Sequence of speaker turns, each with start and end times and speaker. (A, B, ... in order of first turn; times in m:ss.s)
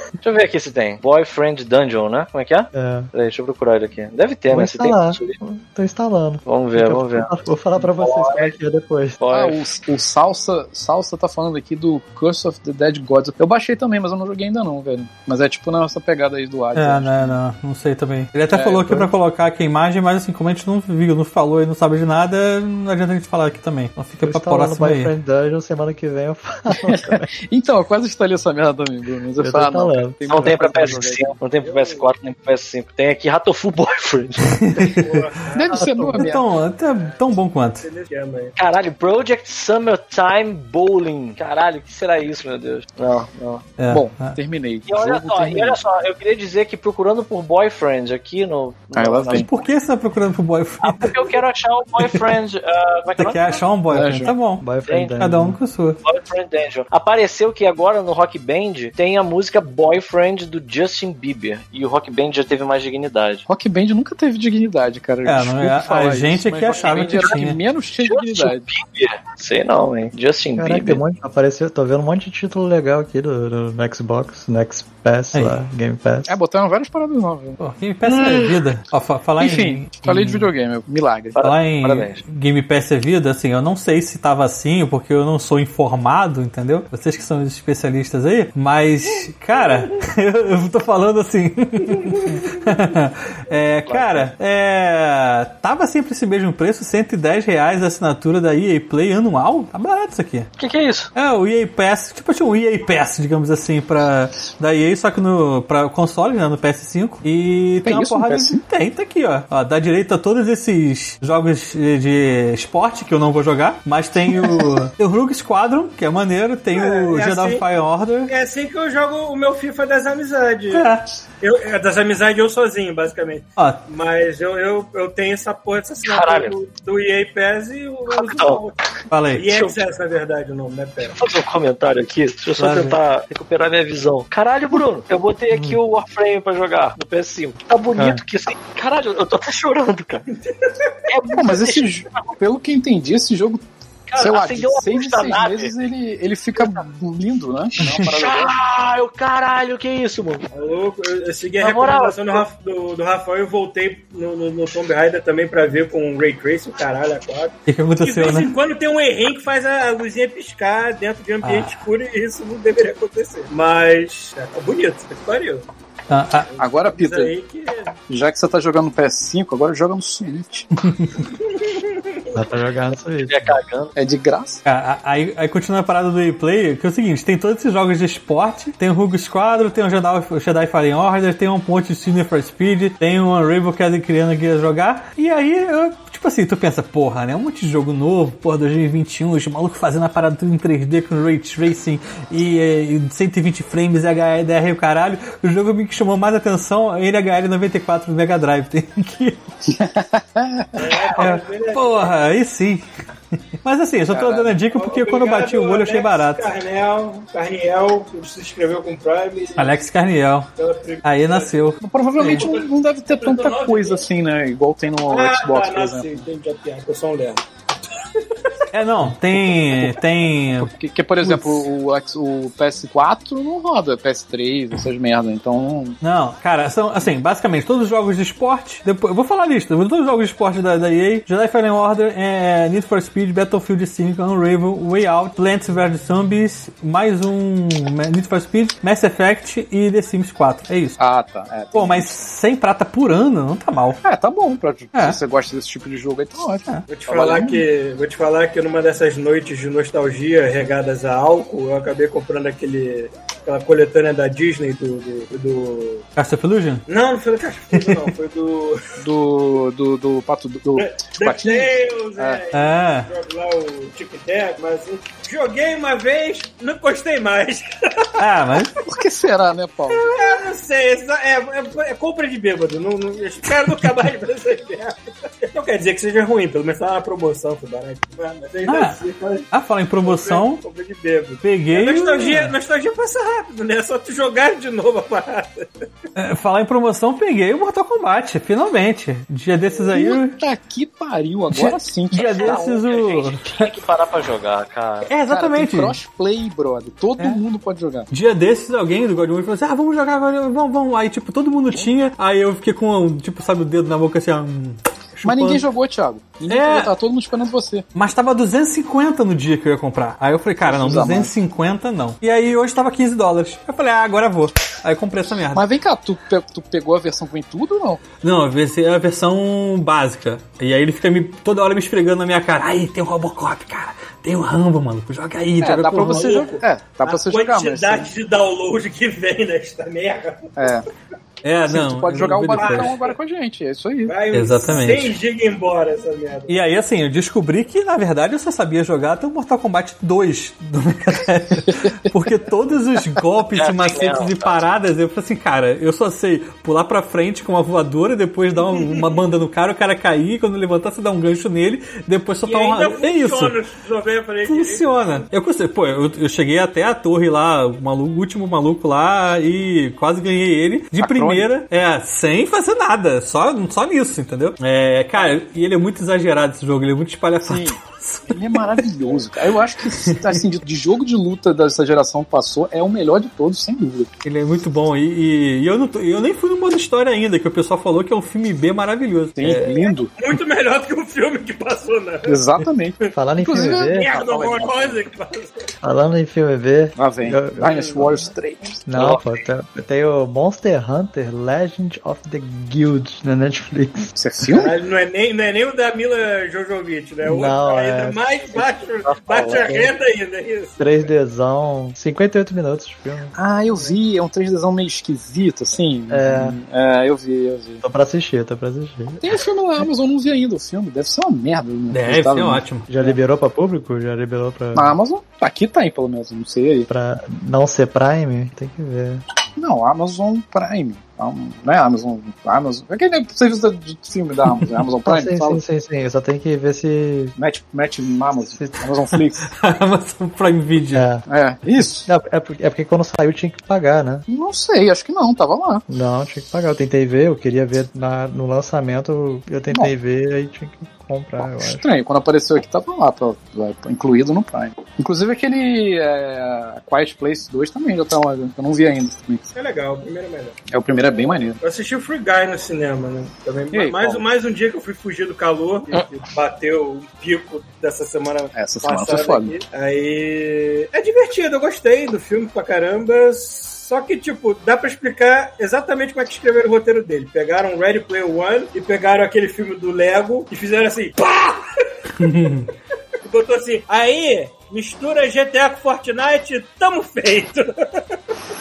0:00.2-0:05.4 A
0:02.7-0:03.1 B
0:04.5-0:09.2 B
0:06.5-0:08.6 A
0:09.2-0:09.6 A
0:09.3-0:17.4 C
0:16.8-0:25.1 D
0:18.5-0:19.1 C
0:24.2-0:27.3 B
0:26.8-0:31.4 C
0:29.4-0:31.0 B
0:30.3-0:34.6 A
0:31.6-0:32.1 E
0:34.6-0:35.2 D
0:34.8-0:35.9 E
0:35.5-0:36.4 C
0:35.7-0:36.3 B
0:36.2-0:37.9 D
0:36.8-0:38.6 E
0:38.6-0:43.6 A
0:43.8-0:44.4 D
0:43.9-0:45.8 C
0:44.9-0:49.6 A
0:48.9-0:49.5 C
0:49.3-0:51.2 D
0:50.8-0:53.6 A
0:53.2-0:54.7 D
0:53.9-0:54.3 C
0:54.6-0:55.6 B
0:54.9-0:55.1 A
0:55.2-0:56.0 D
0:56.0-1:03.5 A
1:03.5-1:08.7 C
1:05.2-1:07.6 D
1:06.8-1:07.3 A
1:08.0-1:11.0 A
1:10.6-1:16.4 B
1:15.3-1:15.6 D
1:16.3-1:17.6 C
1:17.6-1:20.5 D
1:19.4-1:21.4 C
1:21.4-1:22.2 A
1:21.4-1:40.5 D
1:33.9-1:34.3 A
1:40.6-1:41.1 A
1:41.2-1:58.3 D
1:47.8-1:48.6 C
1:54.3-1:54.8 C
1:56.7-1:57.6 E
1:58.3-2:08.8 E
2:00.7-2:01.1 D
2:03.6-2:03.8 D
2:06.0-2:06.6 A
2:08.1-2:08.6 A
2:09.1-2:09.6 D
2:09.3-2:11.2 E
2:09.5-2:09.8 A
2:11.0-2:20.3 A
2:12.6-2:13.0 D
2:15.5-2:15.8 B
2:18.0-2:18.2 B
2:21.1-2:22.3 A
2:21.3-2:23.6 C
2:24.1-2:25.7 A
2:24.2-2:28.6 C
2:26.6-2:26.8 A
2:27.9-2:30.5 A
2:30.5-2:45.6 E
2:31.6-2:32.4 A
2:37.7-2:38.5 D
2:41.4-2:41.8 D
2:46.1-2:46.5 D
2:46.6-2:48.0 E
2:46.6-2:47.3 C
2:48.1-2:50.9 C
2:51.2-2:52.3 E
2:52.3-2:53.6 B
2:53.2-2:53.9 A
2:54.0-2:54.6 C
2:54.6-3:19.4 D
3:19.7-3:20.9 C
3:20.8-3:22.2 E
3:21.2-3:22.8 D
3:23.6-3:26.5 D
3:24.1-3:24.6 C
3:24.7-3:29.8 E
3:29.6-3:30.5 D
3:30.6-3:31.6 E
3:31.0-3:32.5 D
3:31.8-3:36.2 C
3:32.2-3:34.0 E
3:35.1-3:37.4 E
3:38.2-3:38.5 E
3:38.7-3:40.7 D
3:40.5-3:46.0 C
3:41.2-3:41.7 D
3:46.0-4:01.0 D
4:01.0-4:02.2 C
4:01.7-4:04.0 D
4:04.0-4:07.6 C
4:06.9-4:16.0 E
4:16.2-4:16.8 D
4:16.9-4:18.8 E
4:17.8-4:18.0 D
4:19.0-4:22.4 C
4:20.8-4:28.1 E
4:22.5-4:23.1 D
4:28.2-4:28.8 D
4:28.8-4:30.0 C
4:29.9-4:39.5 E
4:38.7-4:39.0 D
4:39.5-4:40.6 D
4:40.0-4:45.7 E
4:41.4-4:42.5 D
4:46.2-4:50.4 D
4:49.9-4:52.6 C
4:51.5-4:53.7 D
4:52.2-4:55.1 A
4:55.1-4:56.0 D
4:55.3-4:58.1 C
4:58.1-5:05.6 D
5:05.2-5:07.8 C
5:06.5-5:06.9 D
5:08.0-5:15.6 D
5:10.6-5:11.3 C
5:15.5-5:18.0 C
5:18.2-5:26.4 D
5:25.6-5:28.1 C
5:26.1-5:30.8 E
5:30.6-5:30.8 C
5:31.4-5:33.0 D
5:31.6-5:34.2 C
5:32.6-5:33.1 E
5:34.1-5:36.6 E
5:34.3-5:35.2 D
5:36.5-5:53.6 D
5:43.5-5:44.6 A
5:48.6-5:49.2 E
5:52.5-5:55.2 E
5:54.4-6:08.8 D
6:01.0-6:01.5 C
6:07.4-6:14.1 C
6:10.1-6:10.4 D
6:14.2-6:19.8 D
6:19.4-6:20.1 C
6:19.7-6:22.4 E
6:22.2-6:25.0 C
6:23.1-6:24.1 B
6:23.9-6:25.7 E
6:25.8-6:28.3 B
6:27.0-6:29.1 C
6:27.6-6:28.0 E
6:28.9-6:34.1 B
6:29.0-6:29.2 A
6:34.2-6:34.8 C
6:34.5-6:41.1 E
6:37.2-6:38.8 B
6:39.0-6:39.9 A
6:40.8-6:43.4 B
6:43.3-6:47.8 C
6:46.1-6:46.6 B
6:47.8-6:49.4 B
6:49.2-6:53.2 C
6:51.9-6:52.9 D
6:52.9-6:55.0 B
6:54.8-6:56.9 C
6:56.9-6:59.2 B
6:59.6-7:05.6 C
7:05.0-7:07.4 B
7:07.4-7:09.5 C
7:08.6-7:08.8 B
7:09.4-7:11.1 D
7:10.9-7:11.2 B
7:11.3-7:12.1 C
7:12.1-7:14.3 B
7:14.3-7:15.8 C
7:15.9-7:21.8 B
7:21.6-7:29.5 C
7:29.5-7:30.6 E
7:30.7-7:31.6 C
7:31.6-7:51.6 E
7:33.7-7:34.2 C
7:38.5-7:39.6 C
7:52.2-7:52.7 D
7:53.3-7:57.7 E